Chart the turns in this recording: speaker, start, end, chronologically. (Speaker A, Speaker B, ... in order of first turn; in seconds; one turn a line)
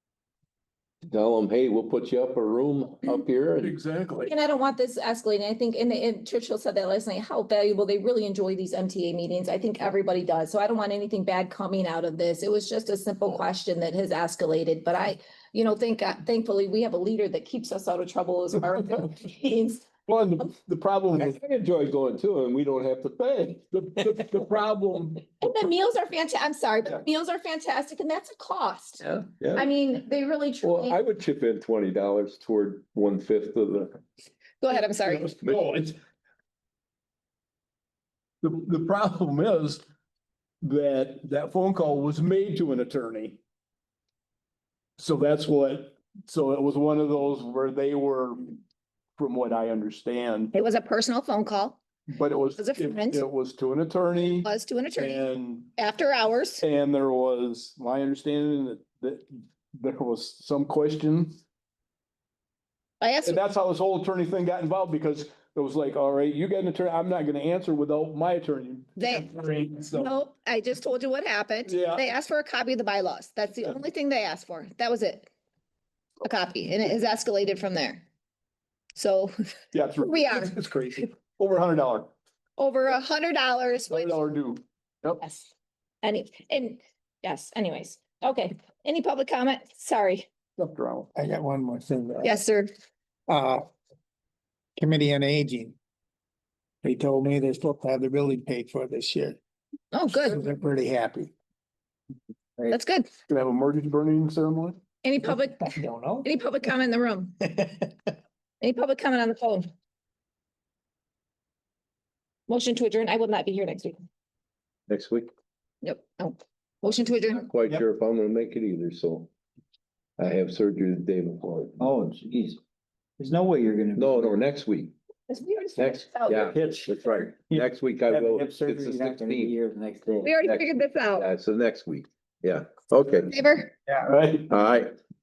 Speaker A: 1.0-3.8
Speaker B: 3.6-4.3
Speaker C: 4.2-19.9
Speaker B: 20.1-21.4
Speaker A: 21.1-24.0
Speaker B: 23.7-25.2
Speaker C: 25.4-29.0
Speaker A: 29.0-29.7
Speaker C: 29.5-31.0
Speaker A: 30.6-34.0
Speaker C: 34.6-35.3
Speaker B: 34.7-36.0
Speaker A: 35.4-35.7
Speaker B: 38.4-39.8
Speaker B: 40.6-43.4
Speaker B: 45.0-48.5
Speaker B: 49.2-50.5
Speaker C: 50.5-51.8
Speaker B: 52.1-55.7
Speaker C: 52.6-53.2
Speaker C: 54.4-55.2
Speaker C: 55.8-56.6
Speaker B: 56.6-61.4
Speaker C: 63.0-63.4
Speaker B: 63.2-70.1
Speaker C: 69.0-69.3
Speaker C: 69.9-75.3
Speaker B: 71.7-72.0
Speaker C: 76.2-78.0
Speaker C: 79.0-79.3
Speaker B: 79.7-82.1
Speaker C: 80.0-80.5
Speaker C: 82.6-84.2
Speaker B: 83.9-85.2
Speaker C: 85.2-85.5
Speaker C: 86.0-90.3
Speaker B: 90.6-91.1
Speaker D: 91.1-92.4
Speaker C: 92.2-92.7
Speaker D: 93.3-93.6
Speaker D: 94.8-95.7
Speaker D: 96.8-99.4
Speaker C: 99.9-100.5
Speaker D: 100.0-101.3
Speaker C: 102.7-103.1
Speaker B: 103.3-104.8
Speaker C: 105.0-107.3
Speaker E: 105.7-106.2
Speaker C: 108.6-109.7
Speaker C: 112.5-114.0
Speaker A: 114.9-115.3
Speaker C: 115.8-117.5
Speaker A: 117.4-119.3
Speaker A: 120.2-121.9
Speaker E: 121.8-122.6
Speaker E: 123.2-124.4
Speaker A: 123.9-124.9
Speaker C: 125.3-126.4
Speaker A: 125.8-129.5
Speaker E: 126.3-130.7
Speaker C: 130.2-131.2
Speaker A: 131.1-133.3
Speaker C: 133.3-133.7
Speaker B: 134.1-134.5
Speaker A: 134.5-134.9